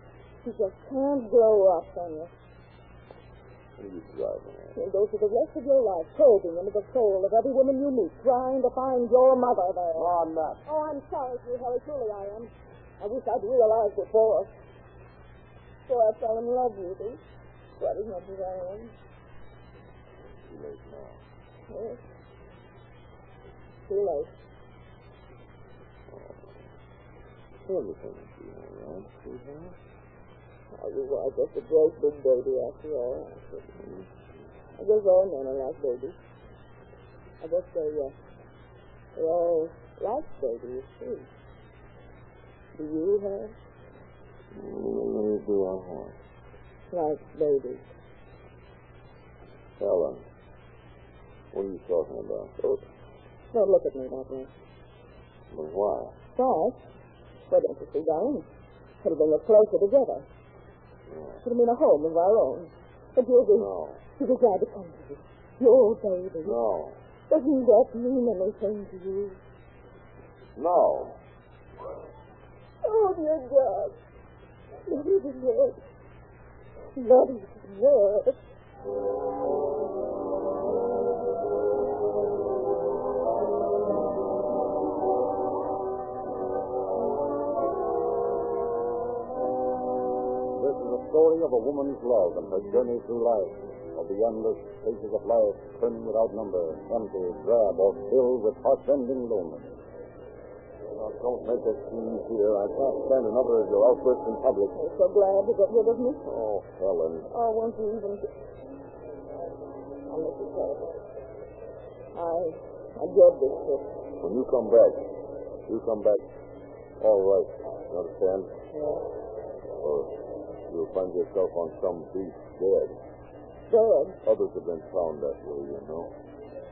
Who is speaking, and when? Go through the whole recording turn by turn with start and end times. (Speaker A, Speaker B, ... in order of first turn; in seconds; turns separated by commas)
Speaker A: 0.4-2.3, Speaker B: 3.8-4.8, Speaker A: 4.8-10.1, Speaker B: 9.9-10.6, Speaker A: 10.7-14.5, Speaker A: 15.9-17.2, Speaker A: 17.8-18.9, Speaker B: 20.5-21.2, Speaker A: 21.7-22.0, Speaker A: 23.9-24.3, Speaker B: 26.1-26.4, Speaker B: 27.7-29.8, Speaker A: 30.7-33.6, Speaker B: 33.8-34.1, Speaker A: 34.8-36.2, Speaker A: 37.4-38.1, Speaker A: 39.1-41.3, Speaker A: 42.8-43.6, Speaker B: 44.5-46.1, Speaker A: 46.9-47.9, Speaker B: 49.8-50.2, Speaker B: 51.5-52.5, Speaker A: 52.6-52.8, Speaker A: 53.5-54.5, Speaker B: 55.5-56.2, Speaker A: 56.4-56.8, Speaker A: 57.5-58.5, Speaker A: 59.0-60.3, Speaker B: 61.1-61.4, Speaker A: 61.4-66.6, Speaker B: 63.5-64.0, Speaker B: 66.4-67.0, Speaker A: 67.3-69.4, Speaker B: 70.6-71.2, Speaker A: 72.8-74.0, Speaker A: 74.8-75.8, Speaker A: 77.0-78.4, Speaker C: 90.6-99.7, Speaker B: 100.9-104.8, Speaker A: 104.7-106.2, Speaker B: 106.2-107.3, Speaker A: 107.3-108.3, Speaker A: 110.1-111.0, Speaker A: 112.1-113.9, Speaker B: 114.2-115.1, Speaker B: 115.7-116.2, Speaker B: 117.0-118.5, Speaker A: 118.7-119.0, Speaker B: 119.8-120.1, Speaker B: 120.7-123.0, Speaker A: 123.7-124.2, Speaker B: 124.2-126.1